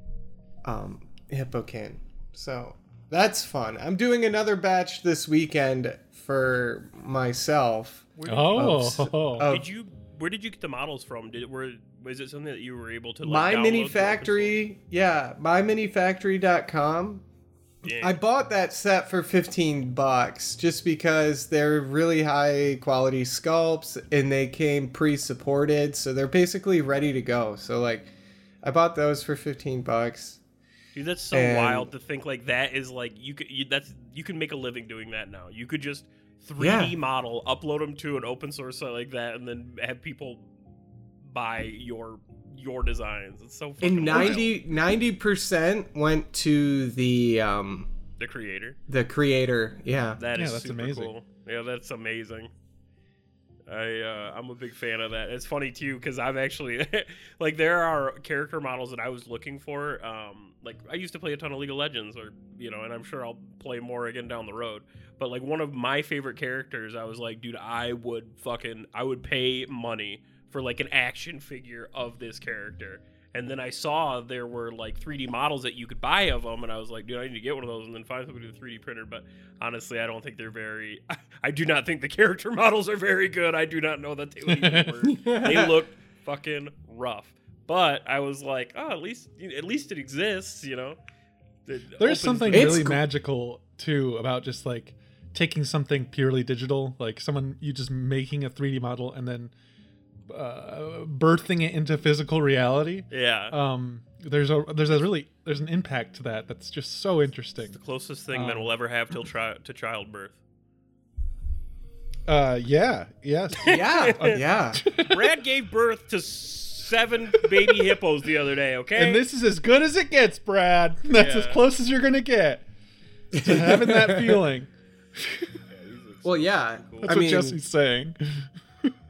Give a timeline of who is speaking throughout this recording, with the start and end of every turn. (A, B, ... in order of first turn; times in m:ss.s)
0:00.6-0:09.6 A
0:08.2-0:08.8 B
0:08.2-0:09.5 C
0:09.4-0:14.5 B
0:13.2-0:17.2 A
0:17.8-0:18.2 B
0:18.0-0:28.1 A
0:28.6-0:30.4 A
0:30.9-0:40.4 B
0:31.3-0:31.9 A
0:36.6-0:36.9 A
0:41.2-0:44.5 B
0:43.8-0:47.9 A
0:48.2-0:48.8 B
0:48.9-0:50.2 A
0:50.2-0:52.5 B
0:50.3-0:51.1 C
0:53.7-1:31.0 B
1:24.5-1:24.9 C
1:25.1-1:25.8 A
1:31.6-1:32.8 B
1:32.0-1:39.5 C
1:32.5-1:33.0 A
1:40.3-1:47.8 C
1:43.1-1:43.5 B
1:47.7-1:50.4 B
1:48.3-1:48.7 C
1:52.3-1:55.3 C
1:53.6-1:54.4 B
1:53.7-1:54.8 A
1:54.9-1:59.2 B
1:58.9-2:02.6 C
2:01.1-2:01.6 B
2:03.3-2:04.4 A
2:03.4-2:05.6 C
2:05.7-2:07.2 B
2:06.2-2:07.6 A
2:07.0-2:08.2 C